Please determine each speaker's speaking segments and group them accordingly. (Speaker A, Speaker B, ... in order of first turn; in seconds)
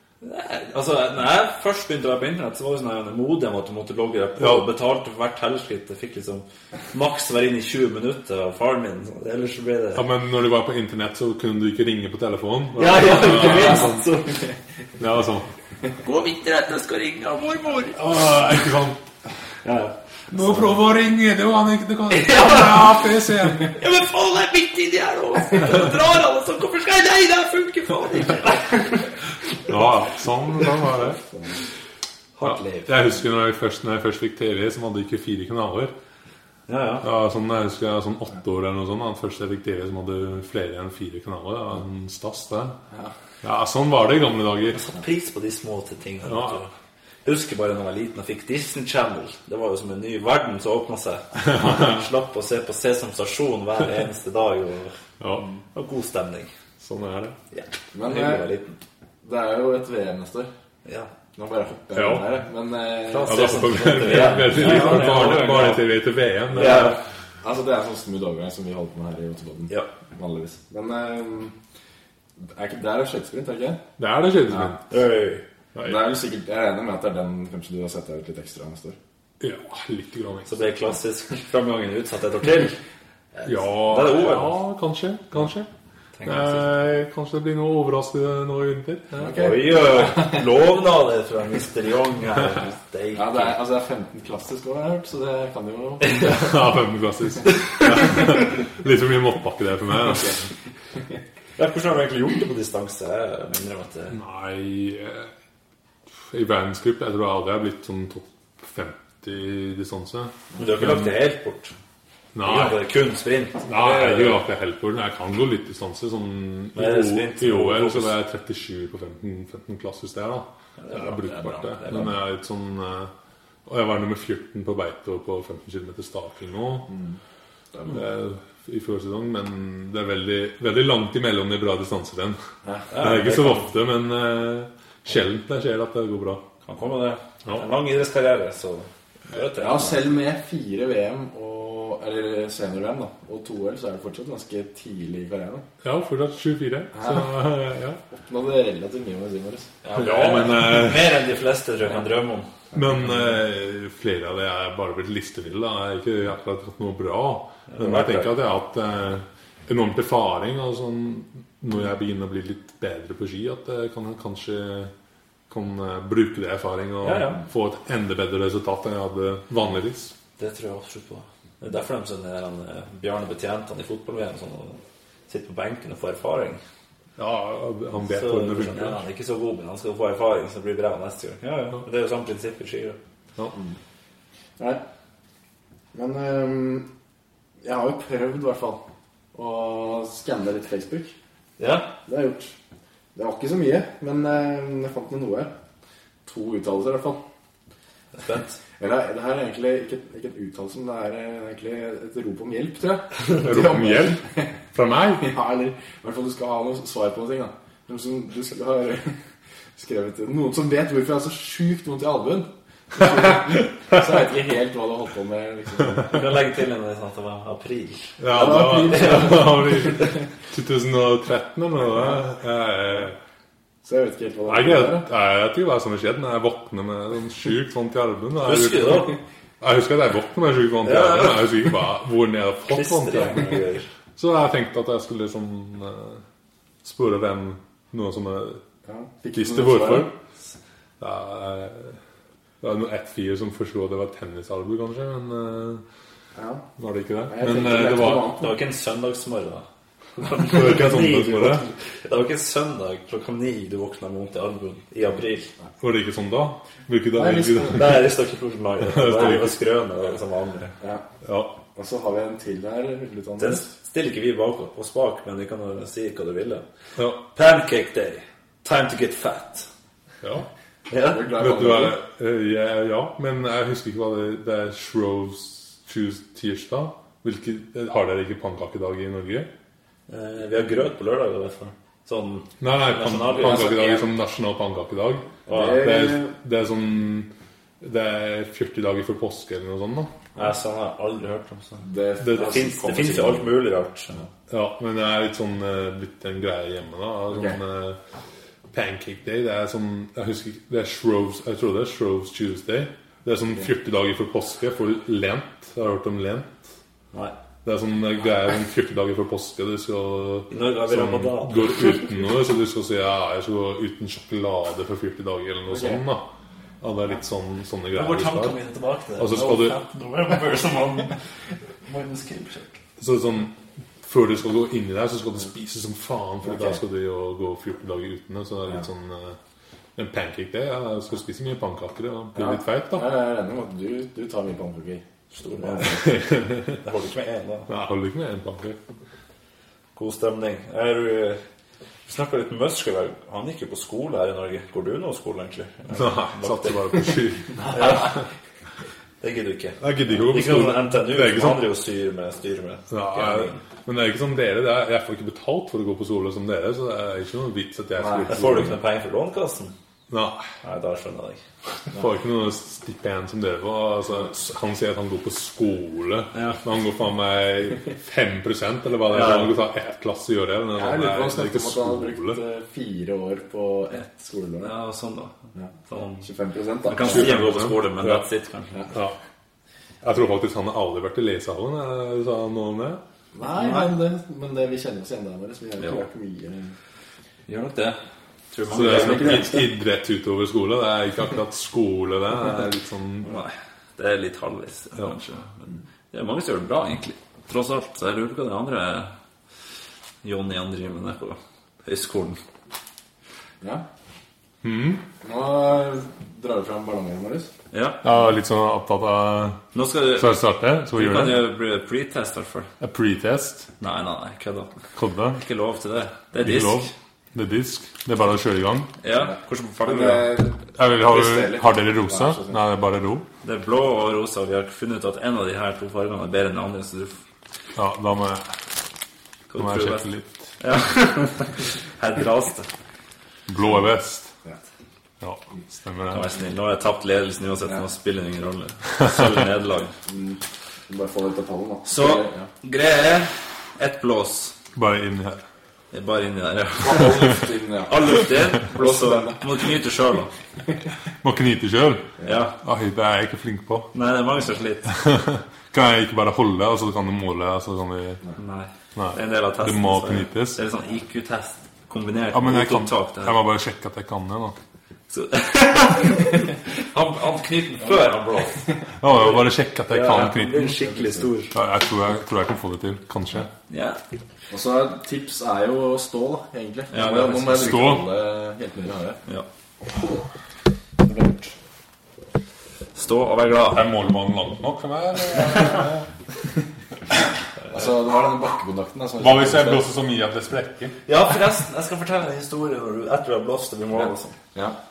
Speaker A: 0.2-10.0, 12.8-14.5, 16.0-18.1, 19.6-19.9, 22.1-22.9, 23.6-29.1, 32.4-33.1, 36.7-37.0, 44.7-46.7, 47.2-55.0, 55.7-56.5, 57.5-58.8, 60.8-61.1, 63.1-65.9, 66.5-67.0, 74.9-75.4, 80.5-82.8, 83.3-84.5, 86.2-86.6, 89.3-93.6, 96.1-96.5, 101.6-104.2, 110.5-111.7, 112.4-114.4, 116.7-118.2, 120.8-122.0, 132.9-133.7, 136.6-140.1, 149.8-152.5, 157.7-158.3, 167.0-167.4, 170.4-176.6, 178.1-183.0, 191.6-191.9, 198.1-198.6, 216.0-219.4, 228.4-229.2, 230.8-231.6, 232.7-233.9, 248.3-249.7, 250.2-255.5, 257.7-260.7, 263.4-266.6, 267.3-269.7, 270.9-271.2, 280.1-284.1, 285.5-285.8, 290.4-294.2, 310.5-312.1, 317.9-321.2, 321.9-322.8, 335.3-337.7, 339.9-341.4, 342.1-348.2, 349.2-353.6, 358.3-359.7, 360.6-361.4, 366.3-366.6, 369.1-369.5, 374.6-375.3, 375.9-376.3, 376.9-378.8, 383.4-383.9, 387.5-388.0, 388.5-389.5, 393.2-399.1, 400.2-402.4, 407.7-408.0, 409.7-410.4, 410.9-412.7, 413.8-414.7, 415.3-416.9, 419.0-420.4, 423.4-427.2, 429.5-430.1, 430.6-432.7, 436.1-439.9, 441.8-444.5, 445.9-450.3, 452.2-452.5, 453.9-454.9, 458.4-463.4, 465.1-469.3, 469.9-471.5, 473.7-474.0, 476.9-477.7, 482.9-483.8, 491.1-494.3
Speaker B: 4.4-4.7, 9.9-14.0, 15.0-15.5, 17.9-19.0, 20.3-23.7, 29.7-31.2, 32.4-35.9, 37.0-42.8, 43.4-44.8, 46.2-46.6, 51.4-52.0, 55.2-55.4, 56.8-57.4, 61.9-62.3, 63.2-67.0, 74.0-74.8, 75.7-76.1, 79.4-80.5, 83.4-85.7, 86.2-89.4, 96.2-100.5, 104.1-105.3, 106.3-111.2, 112.3-112.9, 113.7-123.1, 123.7-126.9, 127.9-132.4, 133.0-136.4, 145.8-148.0, 149.9-151.2, 152.7-164.9, 165.5-170.1, 177.2-179.0, 203.4-204.2, 204.7-205.3, 218.2-223.2, 224.4-233.6, 234.2-236.2, 236.8-238.6, 239.3-240.1, 241.0-242.0, 242.6-245.8, 246.8-248.3, 250.5-251.7, 255.8-258.0, 258.8-259.6, 261.2-261.6, 267.0-267.2, 270.2-270.5, 271.4-279.5, 282.6-287.3, 287.8-290.1, 292.2-292.6, 294.5-298.0, 298.7-306.6, 307.6-316.3, 316.8-318.6, 319.2-319.8, 323.0-329.4, 329.9-333.1, 336.0-336.8, 337.7-338.8, 345.9-348.2, 349.8-351.6, 352.9-358.7, 360.1-360.5, 361.9-372.4, 377.0-378.2, 378.9-379.1, 380.0-383.0, 388.7-393.3, 404.6-405.0, 408.0-409.6, 410.1-411.5, 412.8-413.7, 414.9-415.4, 416.3-418.9, 420.8-423.2, 427.7-428.5, 429.6-430.5, 433.5-434.3, 435.2-436.3, 439.0-439.4, 444.7-445.4, 451.2-453.9, 454.9-458.2, 458.9-460.6, 462.3-464.6, 469.0-470.8, 471.5-473.5, 477.5-478.1, 483.6-486.1, 489.2-491.0
Speaker C: 30.9-31.6, 57.9-58.5, 59.2-60.5, 61.3-64.7, 66.5-71.5, 72.4-73.8, 75.8-79.0, 89.2-90.4, 93.1-96.5, 126.9-127.2, 132.6-132.9, 139.6-145.6, 146.9-147.3, 148.1-149.7, 185.9-186.9, 187.6-188.8, 189.3-191.1, 192.1-192.5, 193.1-195.5, 196.2-197.2, 198.8-204.5, 205.2-209.2, 209.8-216.2, 218.3-220.1, 223.8-225.1, 238.8-240.1, 246.3-246.6, 247.3-248.5, 257.1-258.0, 261.7-263.7, 271.1-272.0, 285.5-286.3, 291.8-293.5, 297.3-297.6, 315.7-316.0, 326.4-326.8, 332.3-336.1, 357.9-358.6, 370.7-374.7, 376.2-377.4, 383.3-386.7, 388.7-389.7, 405.2-407.5, 419.8-422.6, 440.1-442.5, 446.8-449.7, 467.9-468.7, 470.8-471.2, 474.5-479.2, 481.0-481.5, 487.7-489.8, 493.9-494.8